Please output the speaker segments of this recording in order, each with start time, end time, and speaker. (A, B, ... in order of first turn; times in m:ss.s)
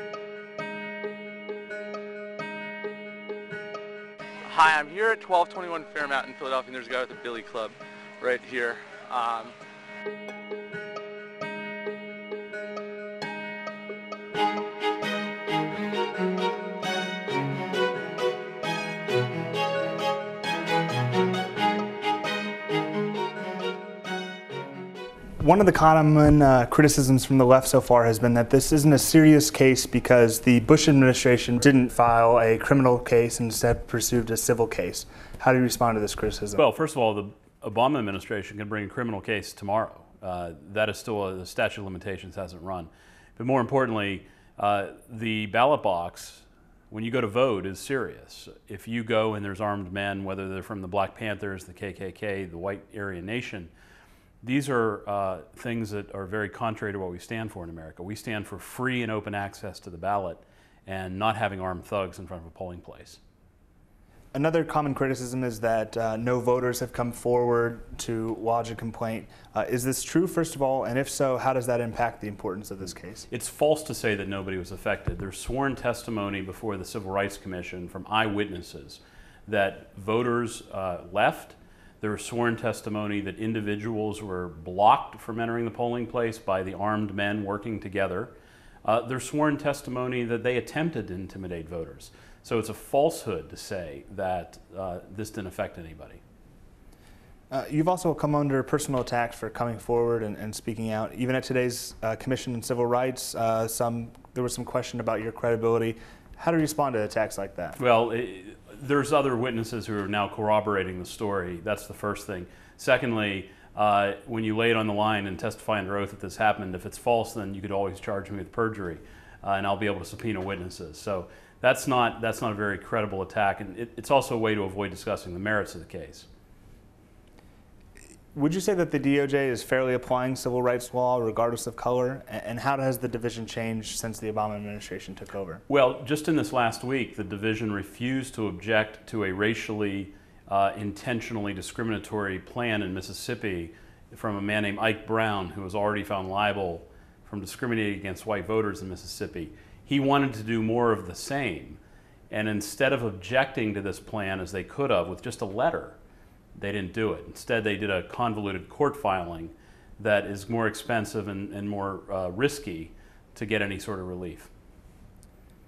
0:04.5-0:09.5 A
0:25.4-0:36.6 B
0:36.6-0:53.7 C
0:54.4-1:03.2 C
1:04.3-1:13.3 B
1:13.3-1:28.3 C
1:28.8-1:36.2 C
1:37.5-1:47.8 B
1:47.8-2:06.3 C
2:08.3-2:15.6 B
2:15.7-2:36.0 C
2:36.6-2:44.5 C